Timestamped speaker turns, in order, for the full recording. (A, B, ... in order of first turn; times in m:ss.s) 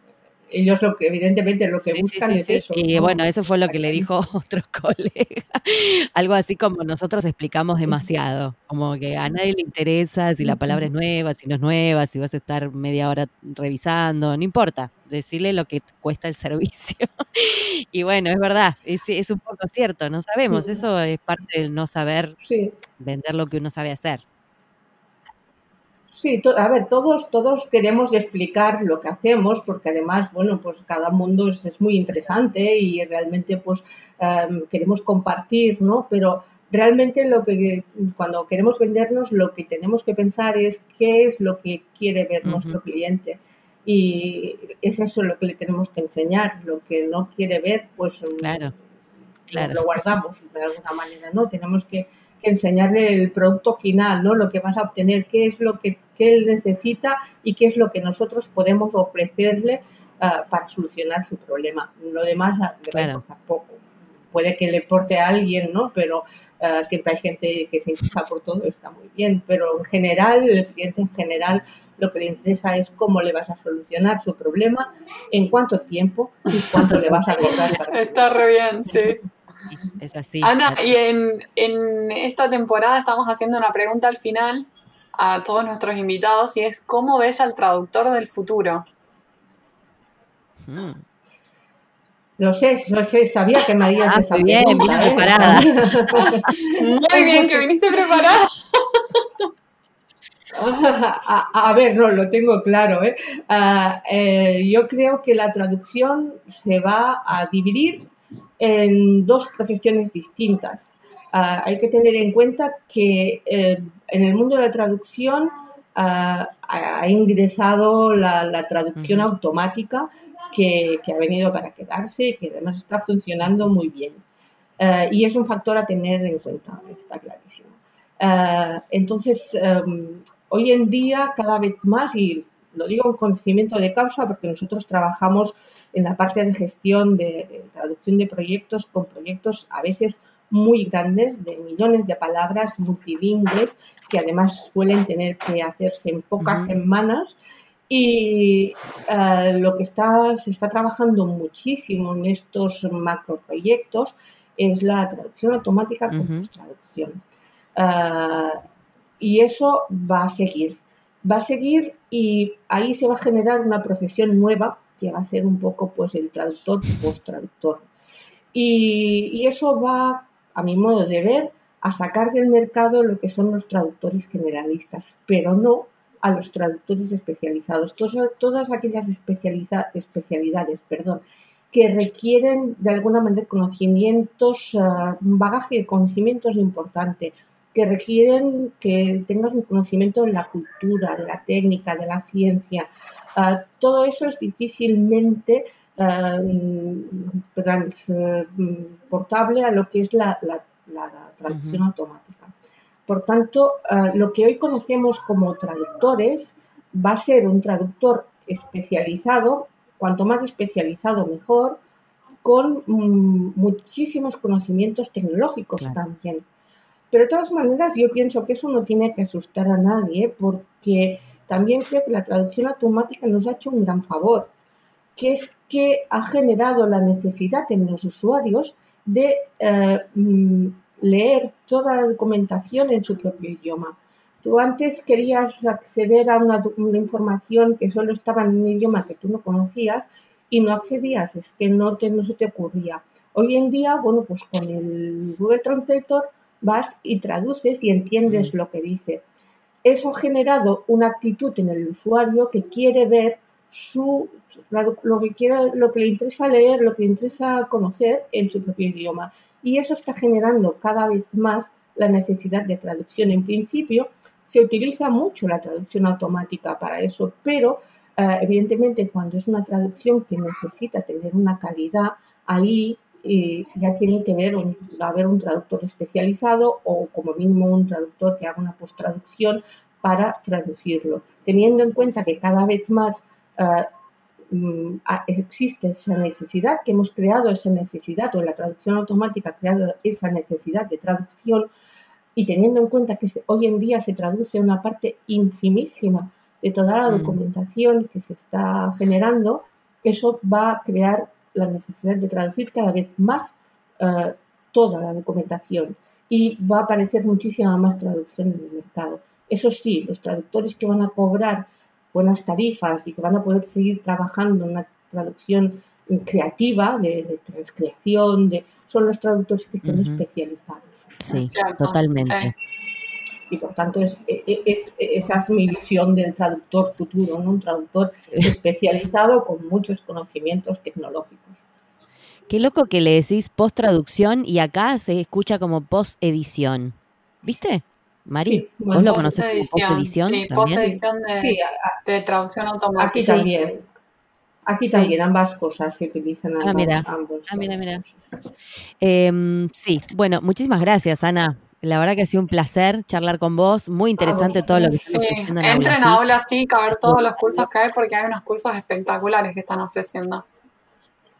0:00.5-0:04.1 A
0:01.9-0:22.4 B
0:10.4-0:10.8 A
0:20.5-0:20.8 A
0:22.4-0:22.8 A
0:23.0-0:24.2 B
0:26.1-0:48.8 A
0:42.4-0:42.8 B
0:48.4-0:48.7 B
0:49.5-0:50.0 B
0:49.5-1:19.1 A
1:02.9-1:03.2 B
1:17.3-1:19.2 C
1:19.7-1:21.0 B
1:20.4-1:28.8 C
1:30.6-1:31.0 B
1:32.4-1:37.6 A
1:34.0-1:36.4 B
1:36.1-1:38.8 C
1:40.5-2:04.2 A
1:59.0-1:59.3 B
2:04.8-2:37.2 A
2:26.4-2:26.8 B
2:36.1-2:36.5 B
2:37.8-2:38.6 A
2:39.2-2:47.9 A
2:48.5-3:22.5 A
3:21.5-3:21.8 B
3:23.1-3:31.8 A
3:32.4-3:36.4 A
3:37.1-3:44.5 A
3:45.2-4:09.2 A
4:08.3-4:08.5 B
4:09.8-4:43.9 A
4:44.5-4:51.7 A
4:52.4-5:21.2 A
4:57.1-4:57.4 B
5:19.8-5:20.2 B
5:21.2-5:22.5 B
5:21.3-5:22.5 C
5:23.5-5:31.6 A
5:32.5-5:40.8 B
5:38.4-5:39.4 A
5:39.0-5:41.5 C
5:40.8-5:42.0 A
5:42.0-5:43.4 C
5:43.0-5:43.8 A
5:44.7-5:48.3 A
5:44.8-5:45.1 B
5:46.6-5:48.0 B
5:49.0-5:56.2 B
5:54.2-5:55.1 A
5:55.1-6:00.4 C
5:56.9-5:57.7 B